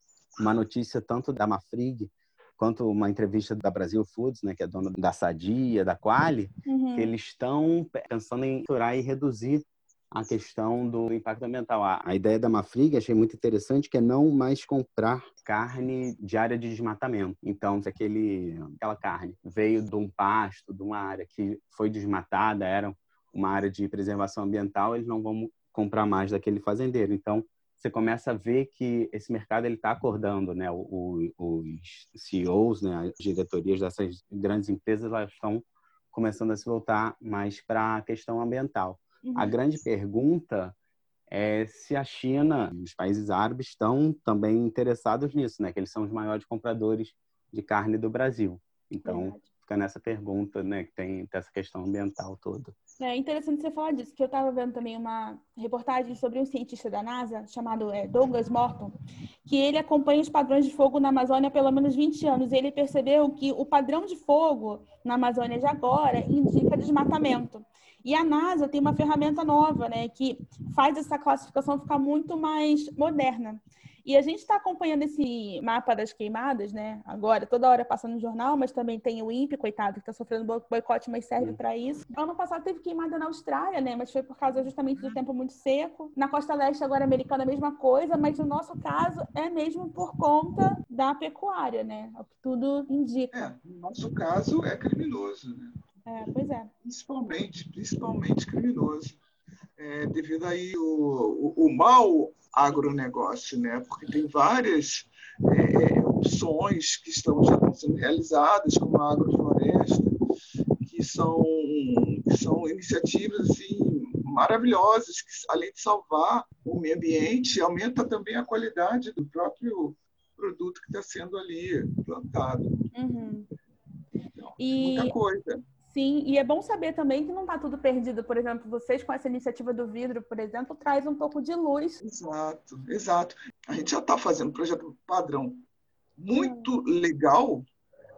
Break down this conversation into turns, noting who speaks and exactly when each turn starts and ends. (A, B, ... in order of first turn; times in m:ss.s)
0:00.4-0:40.8 A
0:06.7-0:07.1 B
0:39.2-0:39.5 B
0:41.3-0:52.7 A
0:49.0-0:49.4 B
0:53.0-0:59.0 B
0:59.5-1:33.5 B
1:33.3-1:35.7 C
1:36.1-1:36.7 B
1:36.8-1:39.2 C
1:39.8-1:50.2 C
1:50.8-2:02.8 C
2:02.9-2:03.5 B
2:04.4-2:05.6 C
2:04.6-2:05.2 B
2:05.9-2:12.0 B
2:12.0-2:15.6 C
2:16.2-2:17.7 C
2:16.4-2:16.7 B